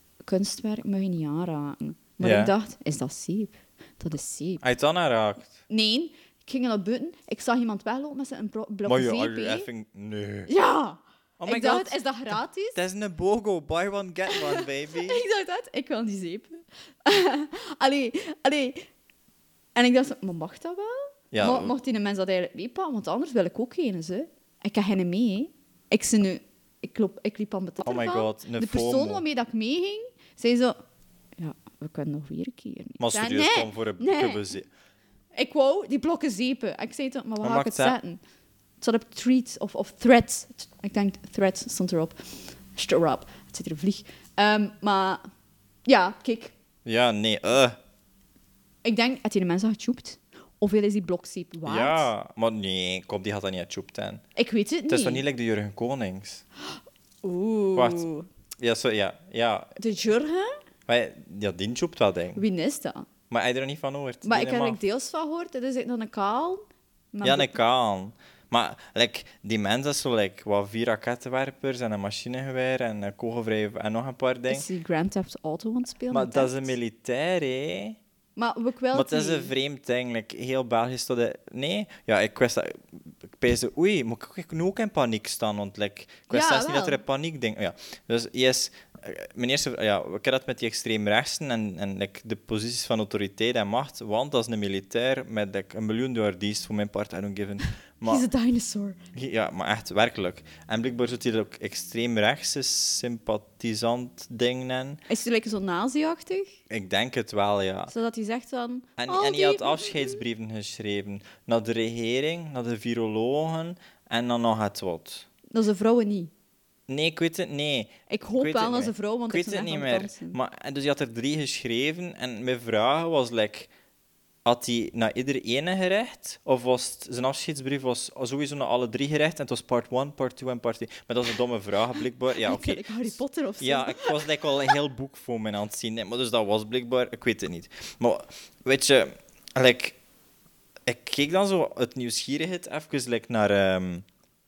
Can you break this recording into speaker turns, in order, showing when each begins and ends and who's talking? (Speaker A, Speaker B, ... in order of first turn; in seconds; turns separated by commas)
Speaker A: 0.2-4.6, Speaker B: 2.2-2.5, Speaker B: 4.6-5.6, Speaker A: 5.7-9.7, Speaker B: 8.8-10.5, Speaker A: 10.5-12.8, Speaker B: 11.4-15.2, Speaker A: 14.3-18.9, Speaker A: 19.8-30.8, Speaker B: 21.3-21.7, Speaker B: 27.8-29.2, Speaker A: 31.4-34.5, Speaker B: 33.0-34.7, Speaker A: 35.3-38.2, Speaker B: 37.4-38.0, Speaker A: 38.8-42.2, Speaker A: 42.7-45.2, Speaker A: 45.9-46.5, Speaker B: 46.8-47.8, Speaker A: 48.8-52.1, Speaker B: 51.6-54.2, Speaker A: 54.4-55.2, Speaker B: 54.9-56.4, Speaker A: 57.2-58.3, Speaker B: 57.7-58.1, Speaker B: 58.6-59.8, Speaker A: 59.8-60.5, Speaker B: 60.9-62.4, Speaker A: 62.4-63.1, Speaker B: 63.3-64.8, Speaker A: 64.2-67.6, Speaker B: 67.2-74.7, Speaker A: 74.5-76.7, Speaker B: 76.1-78.0, Speaker A: 78.3-79.5, Speaker B: 78.9-98.3, Speaker A: 86.3-87.0, Speaker A: 98.0-99.0, Speaker B: 99.1-105.0, Speaker A: 105.1-106.5, Speaker B: 106.7-107.9, Speaker A: 107.9-110.2, Speaker B: 109.0-115.2, Speaker A: 115.5-116.3, Speaker B: 116.9-123.7, Speaker A: 118.1-120.4, Speaker B: 124.4-139.9, Speaker A: 132.4-134.5, Speaker B: 140.8-144.1